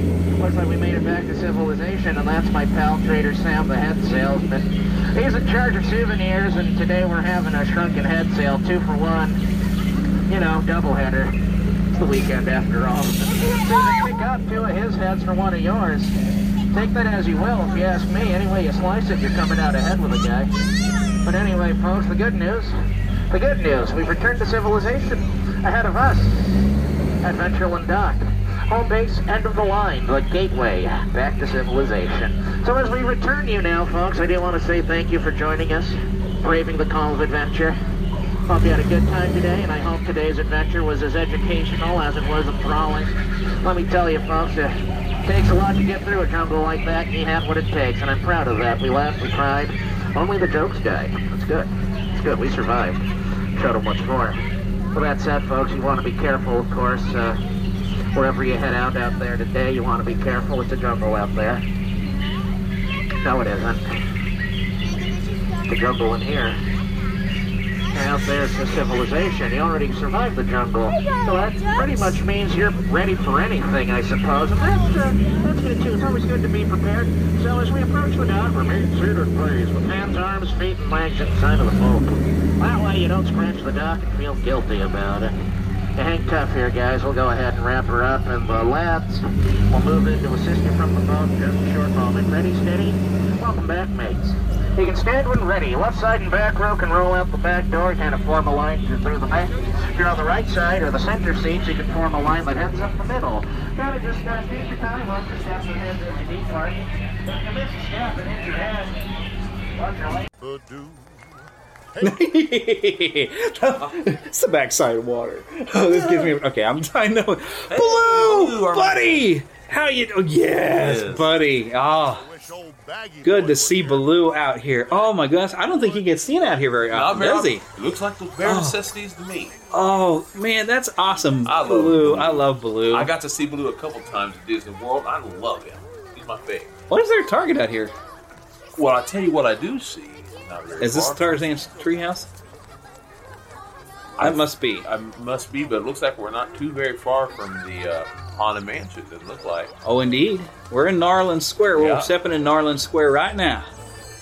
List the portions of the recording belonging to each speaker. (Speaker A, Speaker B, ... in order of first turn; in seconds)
Speaker A: 0.4-9.4, 10.3-11.3, 12.0-16.1, 16.7-20.5, 21.2-22.7, 23.3-26.4, 27.2-37.8, 38.5-43.1, 43.6-44.7, 45.2-53.0, 53.5-54.4, 54.9-57.4, 58.1-61.6, 63.2-63.8, 65.7-66.6, 67.9-85.3, 86.0-109.0, 109.8-110.2
Speaker B: 112.0-122.3, 123.2-127.6, 128.4-128.7, 129.7-133.1, 136.9-137.9, 140.8-142.3, 144.2-144.8, 149.8-153.7
Speaker C: 115.9-116.3, 117.7-119.3, 120.7-121.3, 126.9-129.6, 131.4-136.7, 138.8-141.4, 144.2-149.7, 151.7-152.1